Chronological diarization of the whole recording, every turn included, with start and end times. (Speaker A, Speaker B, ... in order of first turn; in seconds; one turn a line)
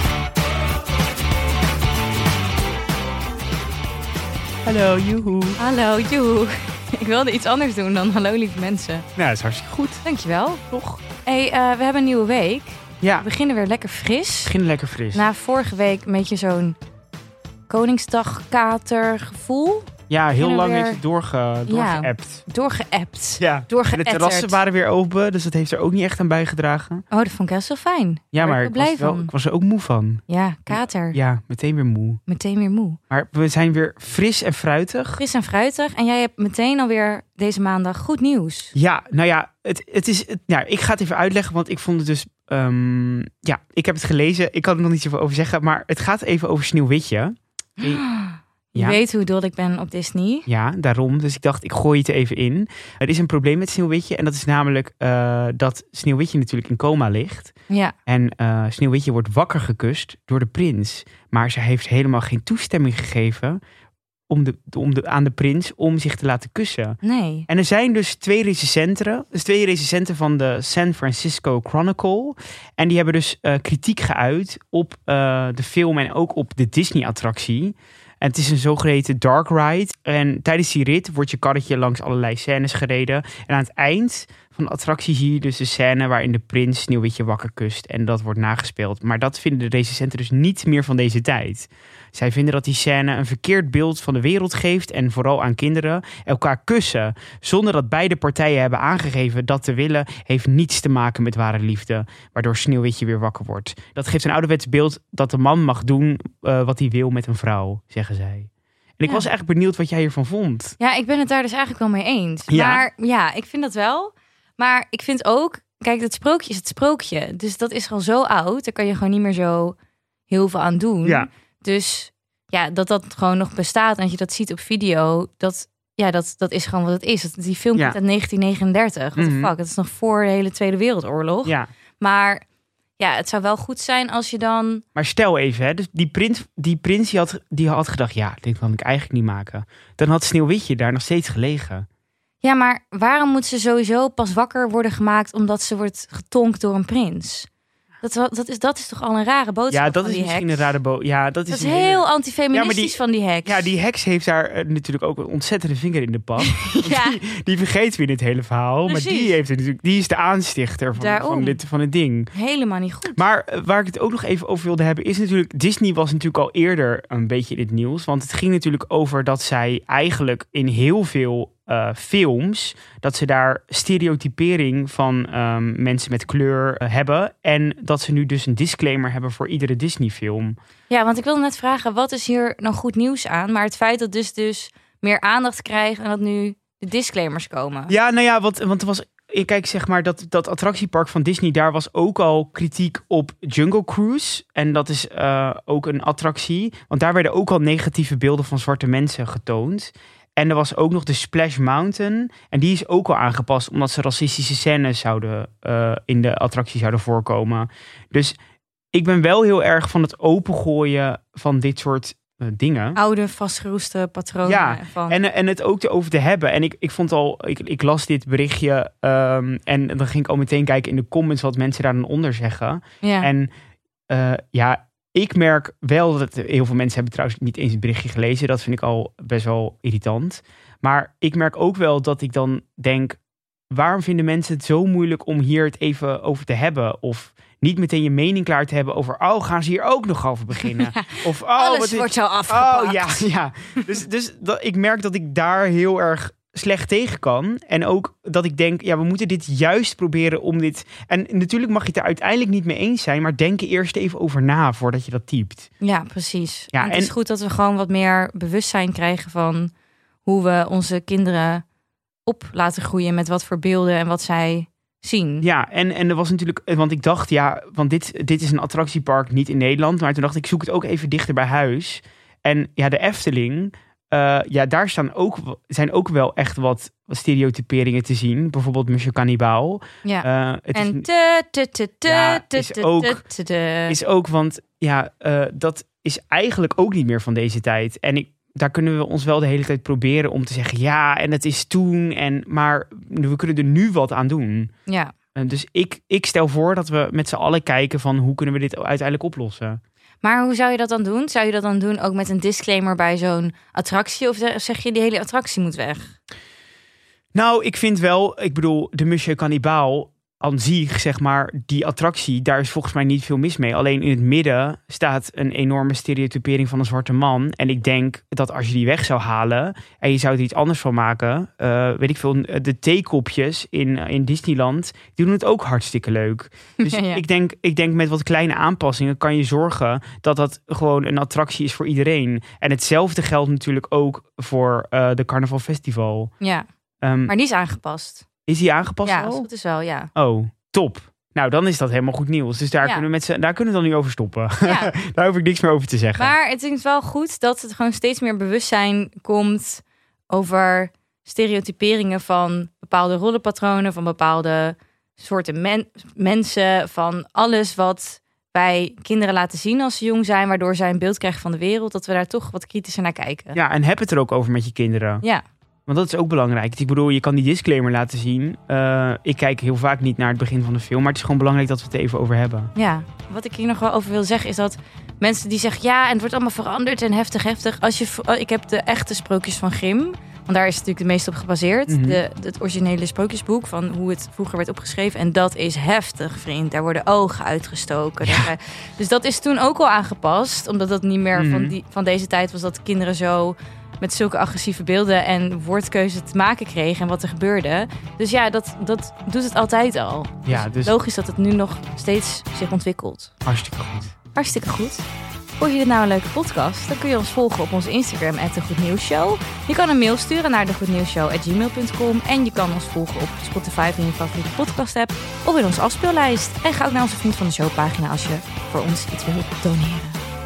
Speaker A: 4.6-5.6
Speaker B: 5.6-9.1
Speaker A: 9.2-10.0
Speaker B: 10.0-10.6
Speaker A: 10.7-11.0
Speaker B: 11.2-14.5
Speaker A: 13.0-13.3
Speaker A: 14.4-15.2
Speaker B: 15.1-16.8
Speaker B: 17.7-21.0
Speaker A: 20.1-22.4
Speaker B: 21.7-24.6
Speaker A: 23.4-27.0
Speaker B: 27.1-29.3
Speaker A: 28.3-32.2
Speaker B: 30.3-31.2
Speaker B: 32.3-33.0
Speaker A: 33.1-35.2
Speaker B: 35.1-38.7
Speaker A: 38.7-48.0
Speaker B: 47.8-50.5
Speaker A: 50.5-57.5
Speaker B: 57.7-57.9
Speaker A: 58.1-63.6
Speaker A: 64.3-110.8
Speaker B: 67.0-67.5
Speaker B: 110.8-119.8
Speaker A: 112.5-112.8
Speaker B: 120.3-132.4
Speaker A: 121.0-121.3
Speaker A: 129.2-129.5
Speaker B: 133.0-134.8
Speaker A: 134.9-141.8
Speaker B: 142.4-147.5
Speaker B: 148.0-150.7
Speaker A: 149.7-162.3
Speaker B: 151.5-153.7
Speaker B: 156.4-157.2
Speaker B: 158.9-159.3
Speaker B: 160.9-161.6
Speaker B: 162.3-163.2
Speaker A: 163.1-180.6
Speaker B: 180.9-187.9
Speaker A: 187.9-208.4
Speaker A: 208.9-213.0
Speaker B: 212.9-215.2
Speaker A: 214.4-223.5
Speaker B: 223.0-223.3
Speaker A: 224.1-233.2
Speaker A: 233.7-255.7
Speaker B: 240.6-243.3
Speaker B: 255.8-259.7
Speaker A: 256.7-257.1
Speaker B: 260.2-261.6
Speaker B: 262.2-265.4
Speaker A: 265.4-281.1
Speaker B: 280.0-284.0
Speaker A: 282.0-283.2
Speaker A: 283.9-294.7
Speaker B: 294.9-295.1
Speaker A: 295.4-299.8
Speaker B: 300.2-306.1
Speaker A: 307.3-336.3
Speaker B: 326.8-327.2
Speaker B: 336.4-336.6
Speaker A: 337.0-337.3
Speaker B: 337.3-338.2
Speaker A: 338.5-339.5
Speaker B: 339.0-340.1
Speaker A: 340.1-346.3
Speaker B: 344.6-344.9
Speaker B: 346.2-363.6
Speaker A: 363.5-365.2
Speaker A: 365.9-372.7
Speaker B: 372.7-403.3
Speaker A: 381.9-382.2
Speaker A: 388.2-388.5
Speaker A: 391.3-391.7
Speaker A: 400.4-400.9
Speaker A: 403.4-404.1
Speaker B: 404.3-405.1
Speaker B: 405.6-420.2